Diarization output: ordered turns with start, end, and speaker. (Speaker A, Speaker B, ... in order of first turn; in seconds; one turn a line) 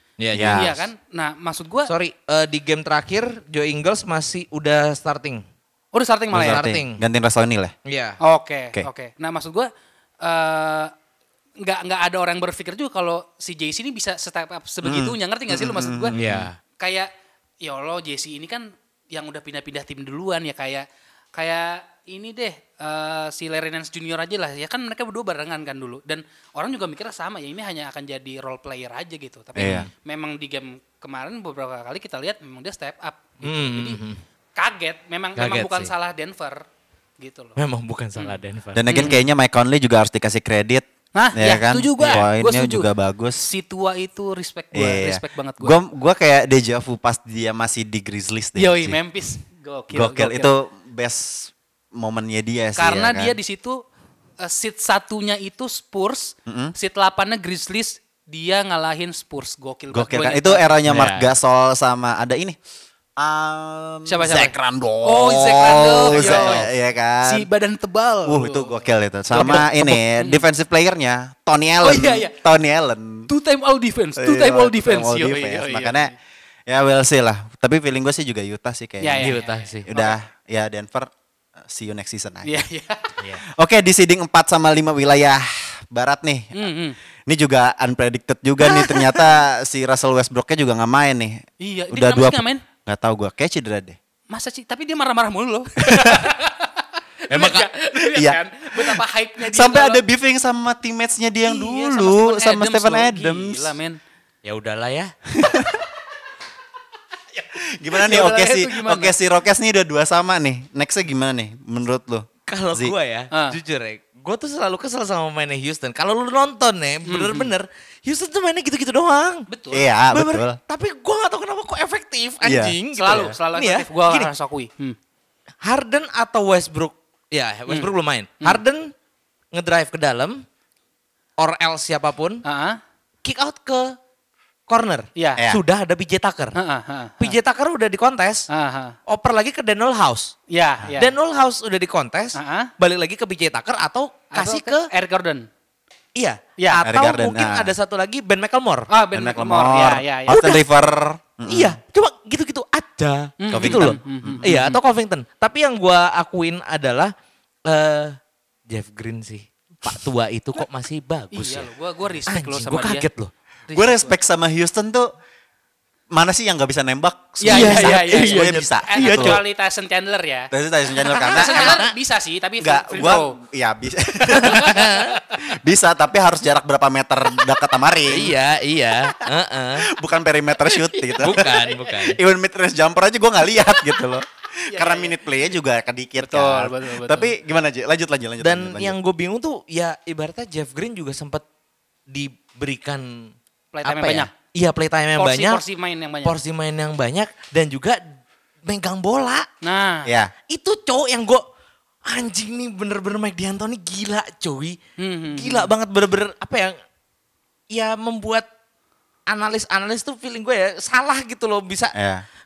Speaker A: 0.2-0.8
Speaker B: 0.3-0.8
Speaker C: 0.5-1.9
Speaker A: 1.9-5.4
Speaker C: 5.9-6.6
Speaker B: 6.3-7.7
Speaker A: 6.3-7.0
Speaker A: 7.8-8.2
Speaker C: 8.2-9.7
Speaker C: 10.2-10.9
Speaker C: 11.6-16.1
Speaker B: 14.8-16.5
Speaker A: 16.1-16.6
Speaker C: 16.8-17.1
Speaker C: 17.6-34.0
Speaker B: 29.6-29.9
Speaker A: 29.6-29.9
Speaker A: 33.4-34.2
Speaker C: 34.5-36.6
Speaker A: 35.4-35.9
Speaker C: 37.2-37.6
Speaker A: 37.6-38.9
Speaker B: 38.7-43.5
Speaker C: 38.9-39.2
Speaker C: 41.1-42.9
Speaker C: 43.4-45.8
Speaker B: 44.7-49.0
Speaker C: 48.5-50.5
Speaker B: 49.9-53.4
Speaker C: 52.8-53.8
Speaker C: 54.4-60.8
Speaker B: 56.5-56.7
Speaker B: 59.9-62.6
Speaker A: 60.9-61.3
Speaker B: 63.2-67.5
Speaker C: 64.1-66.7
Speaker A: 66.1-66.7
Speaker C: 67.2-70.4
Speaker B: 68.2-73.3
Speaker C: 71.8-72.3
Speaker C: 73.3-76.1
Speaker B: 74.2-76.1
Speaker B: 76.7-82.7
Speaker C: 79.0-80.1
Speaker A: 79.2-79.9
Speaker C: 82.4-83.2
Speaker B: 83.4-86.7
Speaker C: 86.5-87.0
Speaker B: 87.2-94.0
Speaker C: 91.6-92.6
Speaker C: 94.3-100.0
Speaker B: 95.8-96.2
Speaker A: 97.3-97.7
Speaker B: 98.0-103.7
Speaker C: 101.4-104.0
Speaker A: 104.4-105.1
Speaker B: 105.3-105.8
Speaker C: 107.3-109.1
Speaker B: 107.6-112.9
Speaker A: 112.5-119.5
Speaker C: 113.3-113.6
Speaker C: 117.1-117.5
Speaker C: 119.5-119.9
Speaker B: 119.7-120.6
Speaker A: 120.1-124.3
Speaker B: 122.4-123.2
Speaker C: 123.0-125.0
Speaker A: 125.6-128.9
Speaker A: 129.5-130.4
Speaker A: 131.4-132.4
Speaker C: 132.4-132.8
Speaker A: 133.2-133.9
Speaker A: 134.7-136.6
Speaker C: 135.2-135.4
Speaker C: 136.5-137.3
Speaker A: 137.2-138.5
Speaker C: 138.5-139.0
Speaker A: 139.1-140.3
Speaker C: 140.5-141.1
Speaker A: 141.0-144.9
Speaker C: 142.3-142.7
Speaker C: 144.3-145.5
Speaker A: 146.2-148.9
Speaker C: 146.6-146.8
Speaker B: 146.8-147.7
Speaker C: 148.9-150.4
Speaker B: 149.1-151.8
Speaker A: 150.3-150.7
Speaker A: 151.5-157.1
Speaker C: 153.4-154.8
Speaker B: 153.5-154.5
Speaker A: 157.7-158.2
Speaker A: 158.7-161.7
Speaker C: 161.3-163.1
Speaker A: 162.3-163.3
Speaker C: 163.7-164.1
Speaker B: 163.7-165.1
Speaker B: 166.1-169.4
Speaker C: 167.4-170.5
Speaker A: 167.4-169.4
Speaker B: 170.5-171.8
Speaker C: 171.0-173.4
Speaker A: 171.2-171.9
Speaker B: 172.6-178.4
Speaker C: 174.3-175.4
Speaker A: 174.4-175.2
Speaker A: 178.1-179.9
Speaker B: 179.8-188.9
Speaker C: 180.8-181.9
Speaker A: 181.2-182.2
Speaker C: 184.7-185.2
Speaker C: 186.2-187.3
Speaker A: 188.4-191.4
Speaker A: 192.1-193.3
Speaker C: 193.7-194.3
Speaker A: 193.8-195.6
Speaker C: 195.2-196.3
Speaker A: 196.2-198.1
Speaker A: 198.7-199.5
Speaker C: 199.6-200.1
Speaker B: 200.1-200.3
Speaker A: 200.5-201.4
Speaker A: 202.1-204.8
Speaker C: 205.0-205.7
Speaker A: 205.3-206.8
Speaker A: 207.7-208.4
Speaker A: 209.3-211.9
Speaker B: 211.9-212.2